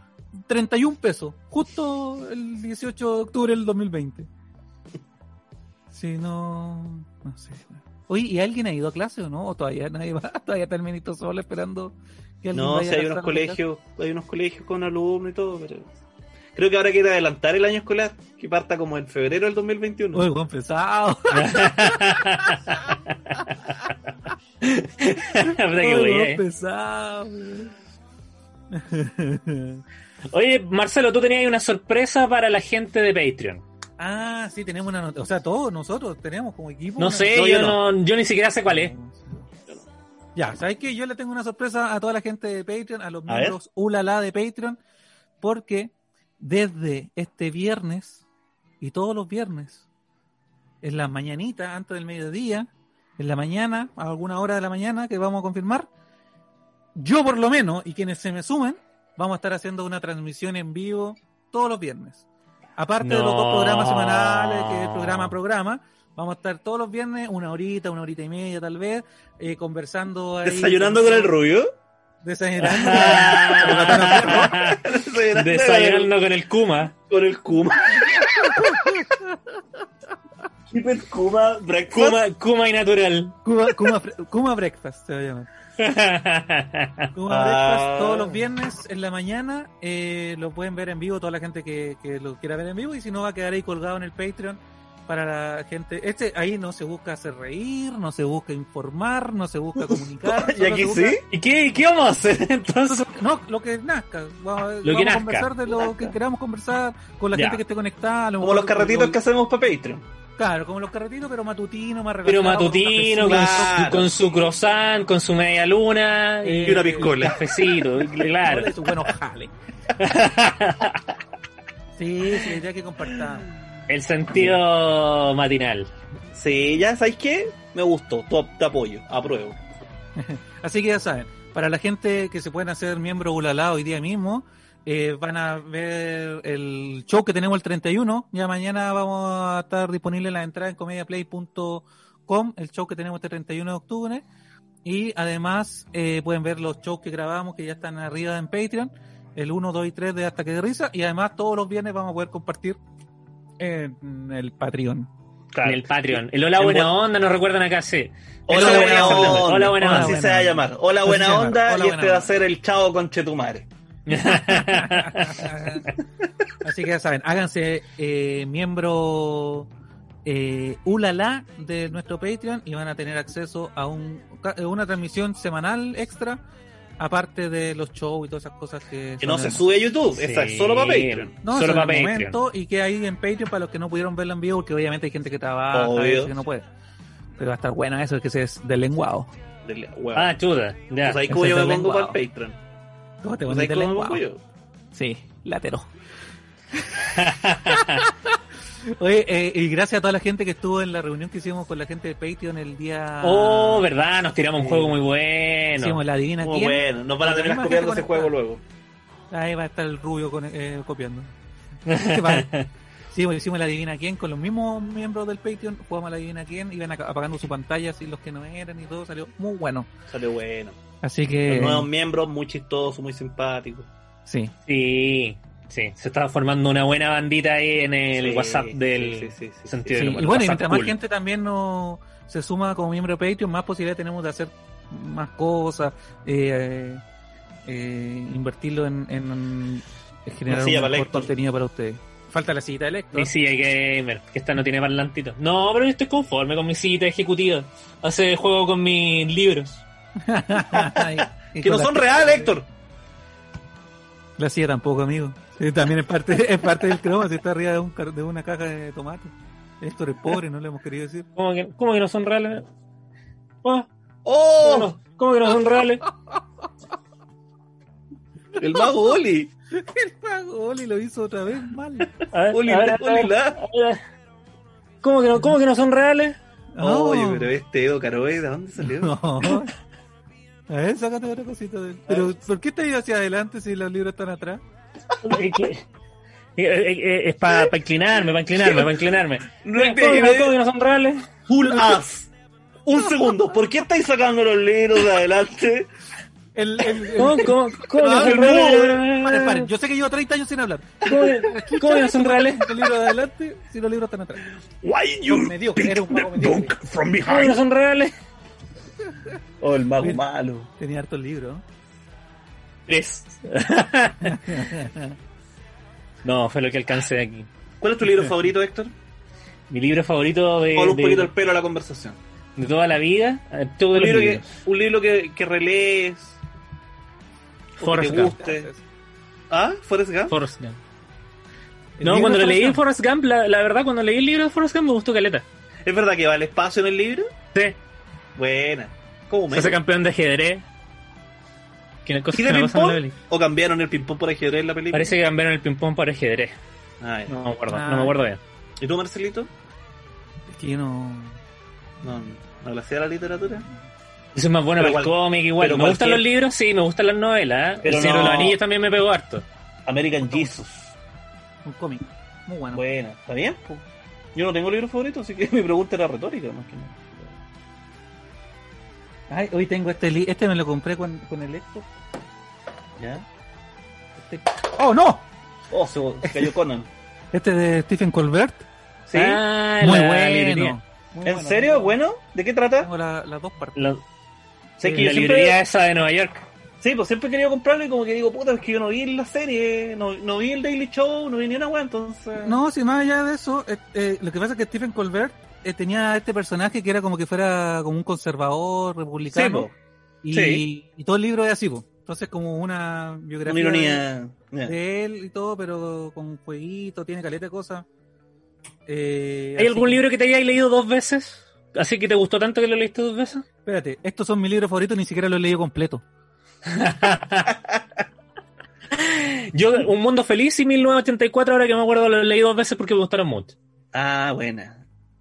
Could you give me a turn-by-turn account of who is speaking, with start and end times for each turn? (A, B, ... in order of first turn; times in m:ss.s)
0:00.5-0:04.3 A
0:05.9-0:13.6 A
0:12.5-0:15.9 B
0:16.6-0:20.2 B
0:20.1-0:22.7 A
0:21.3-0:22.8 C
0:24.6-0:26.4 C
0:25.4-0:27.7 A
0:28.7-0:29.8 A
0:30.3-0:33.6 C
0:34.0-0:37.4 A
0:37.0-0:38.9 C
0:37.3-0:37.8 B
0:38.7-0:39.4 A
0:40.4-0:44.8 A
0:43.3-0:43.6 B
0:45.4-0:48.2 A
0:48.8-0:49.8 A
0:50.8-0:55.9 A
0:57.0-1:02.2 A
1:02.8-1:11.3 A
1:03.0-1:05.3 C
1:10.4-1:11.7 B
1:12.2-1:14.5 A
1:12.6-1:16.9 C
1:12.8-1:16.1 B
1:17.1-1:18.9 B
1:18.2-1:19.4 A
1:20.7-1:22.2 B
1:21.9-1:23.4 C
1:23.4-1:25.5 A
1:25.8-1:27.1 C
1:27.1-1:41.2 A
1:27.3-1:28.4 B
1:40.2-1:41.2 B
1:41.3-1:43.0 C
1:42.9-1:49.2 A
1:44.8-1:45.5 C
1:45.8-1:46.1 B
1:47.3-1:47.6 C
1:48.4-1:50.0 B
1:50.4-1:53.8 A
1:52.3-1:58.8 C
1:53.2-1:54.2 B
1:56.4-1:57.5 A
1:56.6-1:57.4 B
1:58.1-1:59.5 A
2:00.0-2:01.0 C
2:02.0-2:03.5 A
2:03.9-2:05.9 C
2:04.3-2:04.6 B
2:06.3-2:09.6 B
2:10.2-2:24.2 A
2:24.8-2:32.8 A
2:33.6-2:35.1 A
2:35.5-2:36.9 B
2:35.6-2:40.3 C
2:38.5-2:43.6 B
2:38.5-2:42.3 A
2:44.1-2:45.5 C
2:44.3-2:45.9 A
2:46.6-2:49.7 A
2:50.2-2:56.4 A
2:57.0-2:59.6 A
2:59.2-3:01.3 B
3:00.1-3:02.4 C
3:01.4-3:06.6 A
3:05.7-3:06.4 B
3:07.4-3:09.3 A
3:09.6-3:10.3 B
3:10.2-3:11.2 C
3:11.0-3:12.6 B
3:11.3-3:12.2 A
3:13.2-3:14.2 A
3:13.5-3:14.4 B
3:14.9-3:15.9 A
3:16.8-3:23.9 A
3:17.1-3:18.0 C
3:23.2-3:26.0 C
3:24.6-3:24.9 A
3:25.8-3:28.3 A
3:26.4-3:28.6 B
3:29.3-3:31.3 A
3:31.9-3:32.7 C
3:31.9-3:32.5 A
3:33.1-3:39.9 A
3:40.1-3:40.8 B
3:41.0-3:41.9 A
3:41.5-3:43.9 B
3:44.2-3:44.5 A
3:44.7-3:50.9 C
3:48.1-3:50.1 B
3:49.9-3:57.0 A
3:57.6-4:03.3 A
4:00.5-4:01.3 B
4:03.1-4:09.8 C
4:10.2-4:12.5 A
4:10.7-4:12.7 B
4:14.4-4:21.3 A
4:21.4-4:22.6 C
4:24.2-4:24.9 B
4:24.6-4:26.0 C
4:28.5-4:29.5 B
4:29.7-4:32.1 A
4:32.3-4:34.0 C
4:32.5-4:33.6 B
4:35.0-4:36.4 C
4:36.7-4:37.5 A
4:36.8-4:39.2 B
4:38.8-4:39.7 A
4:40.7-4:44.6 A
4:42.1-4:42.3 B
4:45.2-4:45.8 C
4:46.6-4:51.3 C
4:48.6-4:48.9 B
4:49.6-4:50.6 B
4:51.5-4:52.3 B
4:52.8-4:55.9 B
4:56.5-5:04.5 A
4:57.2-4:59.7 C
4:58.0-4:59.0 B
5:01.0-5:02.9 C
5:04.8-5:07.6 B
5:05.2-5:06.8 A
5:07.2-5:08.1 C
5:09.6-5:10.7 B
5:10.8-5:11.6 A
5:12.9-5:14.7 C
5:14.2-5:15.2 A
5:16.2-5:17.5 C
5:17.8-5:18.9 B
5:19.7-5:21.3 C
5:20.7-5:22.2 B
5:22.6-5:24.5 C
5:23.9-5:26.4 B
5:27.8-5:28.7 B
5:27.8-5:28.4 C
5:28.3-5:28.8 A
5:29.5-5:30.4 B
5:30.3-5:30.8 C
5:32.0-5:32.8 A
5:32.0-5:35.4 C
5:35.8-5:37.3 B
5:38.4-5:39.8 B
5:39.5-5:40.6 C
5:42.0-5:43.1 C
5:42.3-5:45.2 B
5:44.9-5:46.6 C
5:47.0-5:47.4 B
5:47.3-5:48.4 C
5:47.7-5:48.2 A
5:48.8-5:49.5 B
5:50.5-5:51.4 A
5:52.0-5:53.7 B
5:54.3-5:59.4 C
5:54.8-5:56.2 B
5:57.8-5:58.6 B
5:59.8-6:00.9 B
6:00.3-6:00.6 A
6:01.6-6:02.8 A
6:02.7-6:03.8 B
6:04.3-6:07.4 B
6:09.3-6:11.9 A
6:13.0-6:13.2 B
6:14.3-6:15.2 A
6:15.7-6:16.9 B
6:16.2-6:16.5 A
6:17.3-6:18.7 A
6:19.1-6:19.4 B
6:19.1-6:20.8 C
6:19.8-6:22.0 A
6:21.2-6:22.9 B
6:22.8-6:23.8 A
6:24.8-6:25.6 B
6:24.8-6:26.4 C
6:26.8-6:32.6 B
6:32.4-6:39.7 A
6:39.3-6:39.7 B
6:40.2-6:44.0 A
6:40.3-6:40.6 B
6:43.5-6:44.7 B
6:44.6-6:47.8 A
6:48.8-6:50.0 A
6:49.6-6:53.4 C
6:53.6-6:56.0 A
6:56.6-6:57.5 C
6:57.5-6:57.8 B
6:58.9-7:03.5 C
7:03.9-7:04.8 B